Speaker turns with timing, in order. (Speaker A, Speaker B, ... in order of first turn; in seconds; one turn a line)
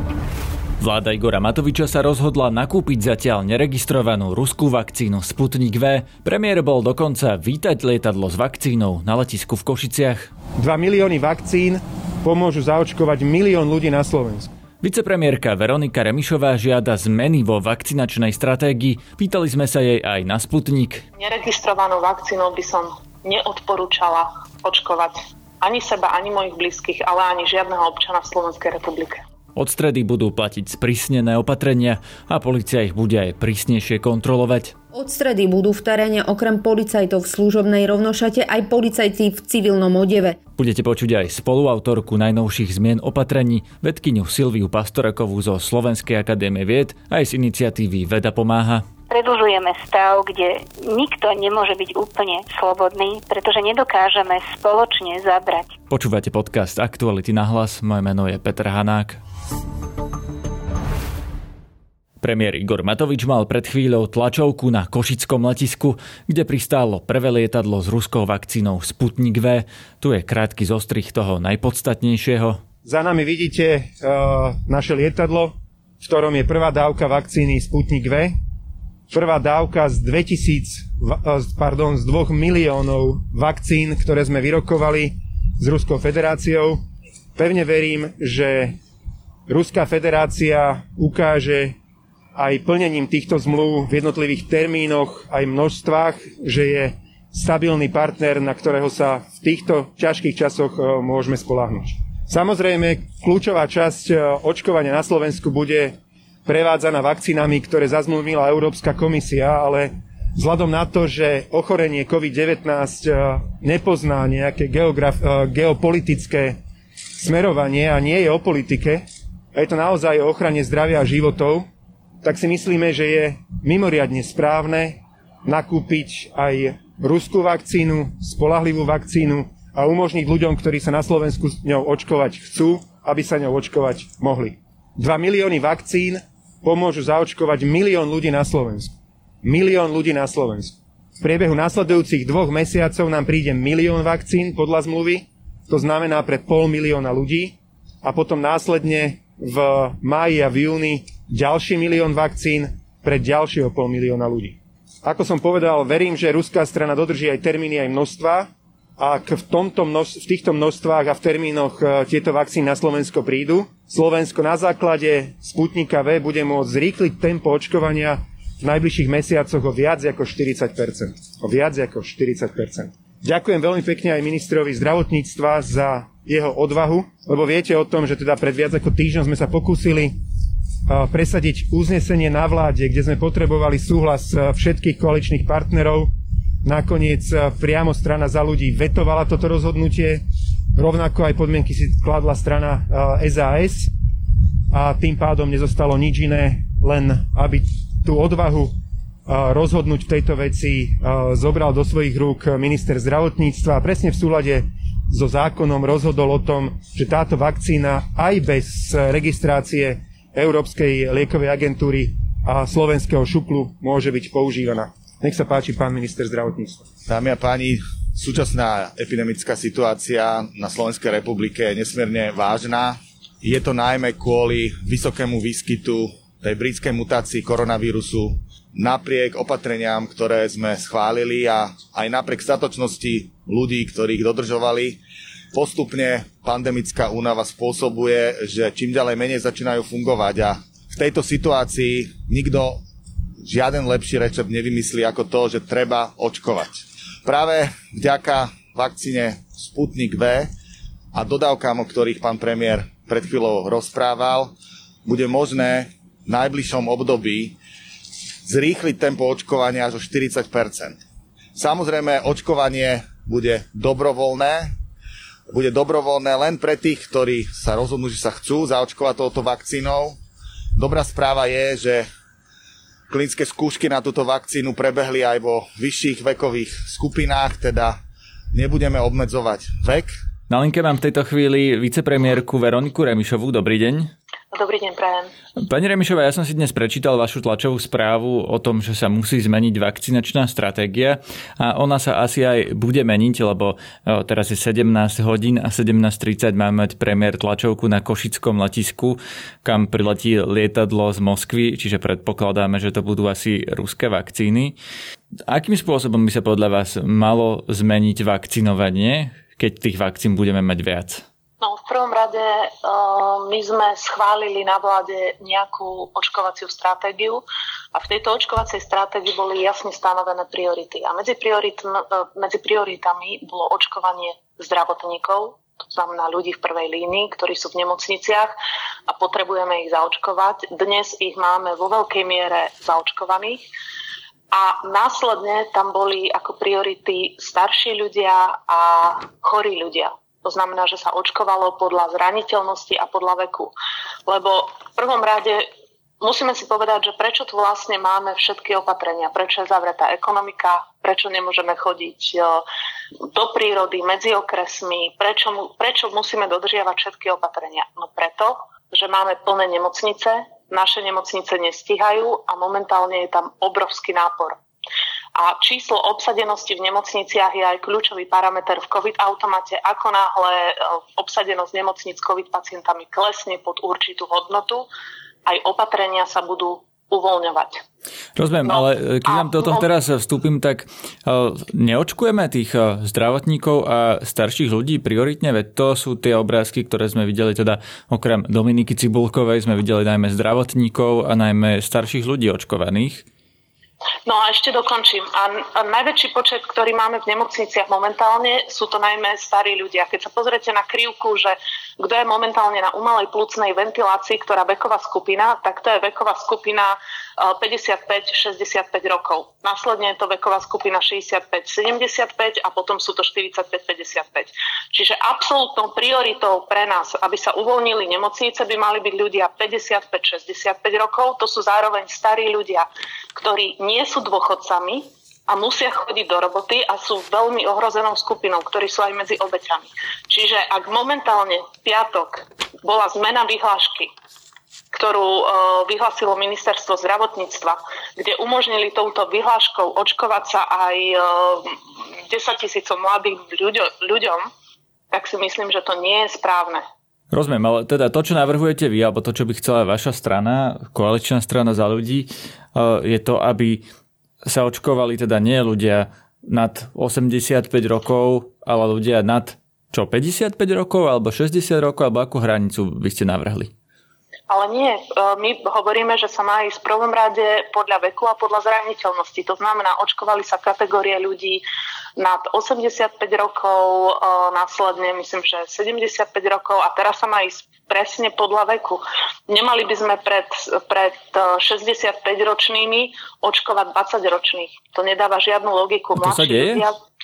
Speaker A: 0.8-10.3
Speaker B: 10.6-14.5
Speaker A: 14.8-21.0
Speaker C: 21.2-29.2
Speaker A: 29.6-34.7
Speaker D: 34.9-40.4
Speaker A: 40.5-48.8
Speaker E: 49.1-55.8
Speaker A: 55.9-59.2
Speaker A: 62.2-72.6
Speaker B: 72.8-78.3
Speaker B: 79.1-86.8
Speaker B: 87.3-88.7
Speaker B: 89.5-91.7
Speaker B: 92.3-105.9
Speaker B: 106.5-116.5
Speaker B: 117.2-119.0
Speaker B: 119.5-121.6
Speaker B: 122.2-138.9
Speaker B: 139.4-158.5
Speaker B: 159.0-180.1
Speaker B: 180.9-186.1
Speaker B: 186.6-190.2
Speaker B: 190.8-193.9
Speaker B: 194.7-198.7
Speaker B: 199.3-216.9
Speaker F: 217.1-235.0
Speaker F: 235.5-242.8
Speaker F: 243.4-250.5
Speaker F: 251.1-254.5
Speaker F: 255.0-257.6
Speaker F: 258.4-261.0
Speaker F: 261.6-264.7
Speaker F: 265.5-270.2
Speaker F: 270.8-272.1
Speaker F: 273.1-278.0
Speaker F: 278.5-280.1
Speaker A: 280.5-284.1
Speaker C: 284.5-285.3
Speaker A: 285.6-304.8
Speaker A: 305.5-311.2
Speaker C: 311.6-328.5
Speaker C: 329.1-333.6
Speaker C: 334.5-343.7
Speaker C: 344.3-345.6
Speaker C: 346.2-352.6
Speaker C: 353.3-364.6
Speaker C: 365.4-374.9
Speaker C: 375.4-377.8
Speaker A: 378.4-393.2
Speaker C: 378.6-379.9
Speaker C: 394.2-434.1
Speaker C: 434.9-441.7
Speaker C: 442.3-444.4
Speaker C: 445.1-446.8
Speaker A: 447.3-453.8
Speaker A: 454.4-463.7
Speaker C: 464.5-471.6
Speaker C: 472.2-486.9
Speaker A: 486.1-486.9